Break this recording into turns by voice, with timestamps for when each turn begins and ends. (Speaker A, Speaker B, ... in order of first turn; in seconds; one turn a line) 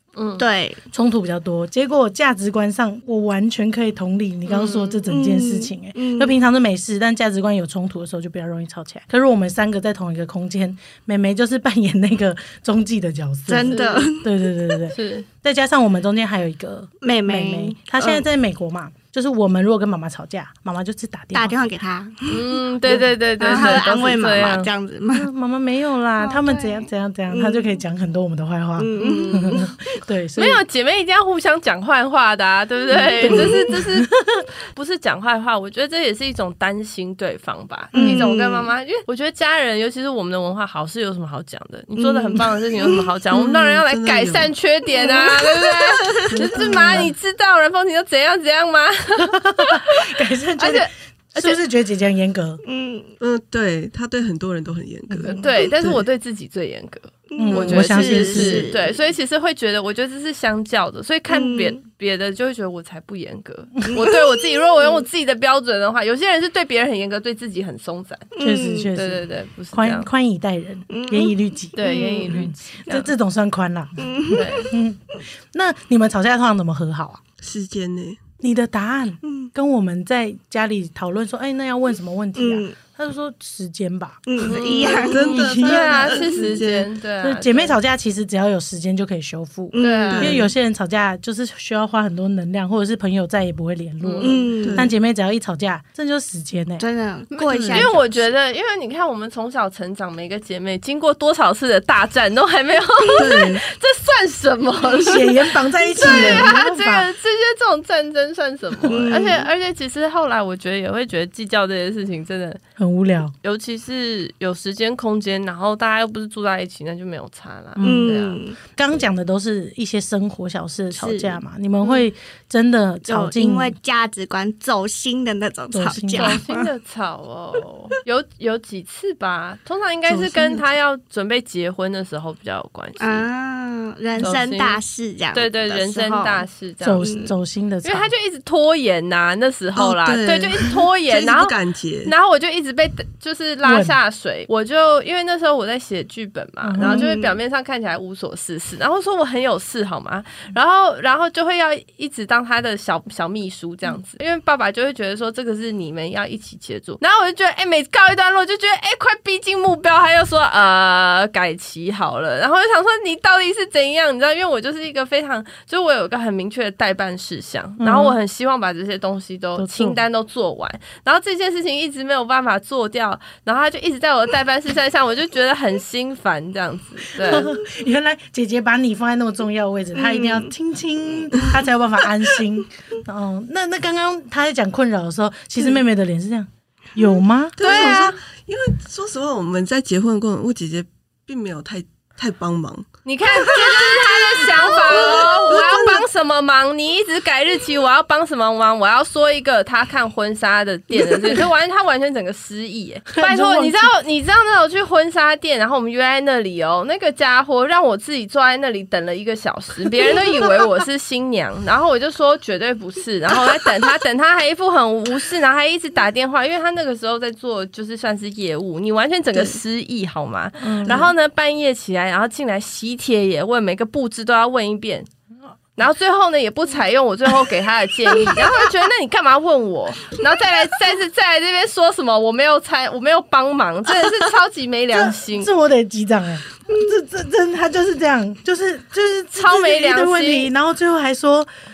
Speaker A: 0.1-0.4
Speaker B: 0.4-0.8
Speaker C: 0.9-21.6
Speaker B: 4.5-6.3
Speaker B: 13.5-14.8
Speaker A: 13.7-14.1
Speaker A: 14.9-15.2
Speaker B: 17.0-18.2
Speaker B: 21.3-25.3
Speaker A: 22.3-24.7
Speaker C: 23.4-23.8
Speaker C: 25.1-30.6
Speaker B: 26.2-27.8
Speaker B: 28.8-29.7
Speaker A: 29.0-29.7
Speaker A: 30.4-34.1
Speaker B: 32.9-33.6
Speaker C: 33.2-34.5
Speaker A: 34.7-51.6
Speaker C: 37.9-38.3
Speaker B: 37.9-38.7
Speaker B: 42.0-43.0
Speaker D: 43.4-44.5
Speaker B: 44.9-46.5
Speaker D: 46.2-47.1
Speaker C: 49.2-52.6
Speaker B: 52.6-53.1
Speaker D: 53.2-56.0
Speaker A: 55.3-68.3
Speaker B: 57.3-59.0
Speaker C: 57.4-58.7
Speaker B: 61.3-61.8
Speaker B: 63.9-64.2
Speaker B: 64.7-65.0
Speaker B: 68.3-68.9
Speaker C: 68.4-77.2
Speaker A: 68.9-70.1
Speaker B: 70.9-72.4
Speaker A: 71.8-73.1
Speaker B: 74.0-74.5
Speaker A: 74.3-74.7
Speaker D: 77.4-78.2
Speaker C: 78.4-86.4
Speaker B: 82.3-82.8
Speaker B: 84.3-86.2
Speaker A: 84.4-87.8
Speaker D: 85.0-86.9
Speaker C: 87.2-96.8
Speaker B: 89.7-90.4
Speaker A: 89.8-90.4
Speaker A: 94.0-94.6
Speaker B: 94.2-94.8
Speaker D: 94.6-94.9
Speaker B: 96.8-98.3
Speaker A: 97.3-105.4
Speaker D: 97.5-97.9
Speaker D: 103.1-103.6
Speaker C: 105.0-107.1
Speaker A: 106.0-112.6
Speaker B: 106.0-106.5
Speaker B: 108.9-109.5
Speaker C: 112.8-113.3
Speaker A: 113.4-118.4
Speaker C: 117.8-123.8
Speaker B: 117.8-118.6
Speaker B: 120.9-122.0
Speaker B: 123.1-126.4
Speaker C: 125.7-126.7
Speaker A: 126.2-133.3
Speaker D: 130.1-130.6
Speaker B: 133.0-136.4
Speaker A: 134.2-134.8
Speaker A: 135.3-137.0
Speaker C: 136.8-138.1
Speaker B: 137.0-137.3
Speaker A: 137.8-141.5
Speaker D: 139.8-142.1
Speaker A: 142.1-177.5
Speaker C: 143.6-143.9
Speaker C: 146.6-147.1
Speaker B: 146.8-147.3
Speaker C: 167.8-168.2
Speaker C: 169.6-170.0
Speaker C: 177.2-187.6
Speaker B: 179.9-180.5
Speaker D: 187.6-192.9
Speaker A: 187.6-188.2
Speaker A: 193.0-225.1
Speaker B: 193.4-195.5
Speaker D: 193.5-193.9
Speaker D: 194.7-196.1
Speaker C: 203.1-203.9
Speaker C: 220.6-221.1
Speaker A: 225.8-235.5
Speaker C: 234.9-241.5
Speaker A: 239.3-240.5